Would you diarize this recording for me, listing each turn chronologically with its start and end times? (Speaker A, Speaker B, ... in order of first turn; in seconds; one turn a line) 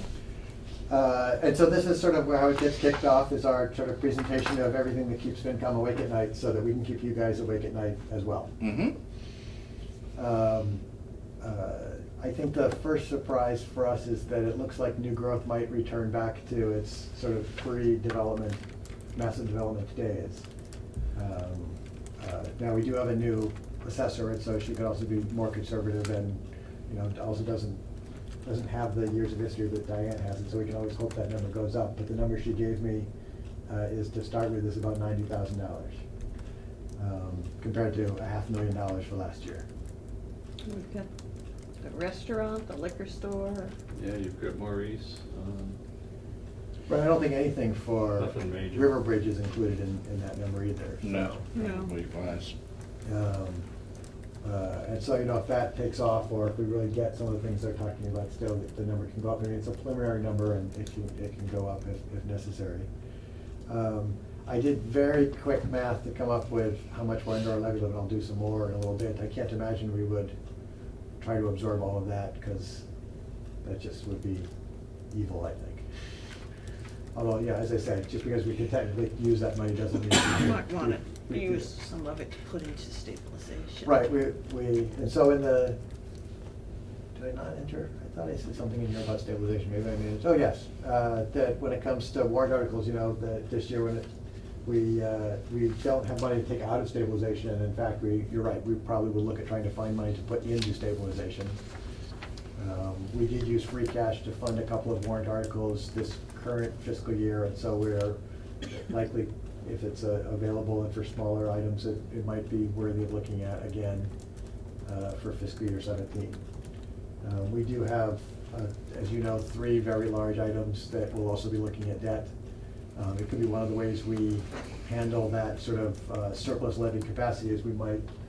Speaker A: 0.9-8.5
Speaker B: 8.6-9.0
Speaker A: 10.2-10.8
Speaker A: 11.4-18.6
Speaker A: 19.1-20.4
Speaker A: 21.1-27.8
Speaker A: 28.4-33.1
Speaker A: 33.7-36.0
Speaker A: 37.0-39.6
Speaker C: 40.6-41.1
Speaker C: 41.8-43.7
Speaker D: 43.9-45.8
Speaker A: 46.9-51.5
Speaker D: 48.2-48.9
Speaker B: 51.0-52.5
Speaker C: 51.5-52.0
Speaker A: 53.0-53.6
Speaker A: 54.4-62.9
Speaker A: 63.7-70.3
Speaker A: 71.2-72.8
Speaker A: 73.6-74.5
Speaker A: 75.1-75.8
Speaker A: 77.2-81.7
Speaker C: 80.4-83.9
Speaker A: 83.8-85.8
Speaker A: 87.2-94.1
Speaker A: 94.6-101.6
Speaker A: 102.6-108.2
Speaker A: 108.9-114.1
Speaker A: 114.8-116.4
Speaker A: 117.2-122.3
Speaker A: 123.0-128.1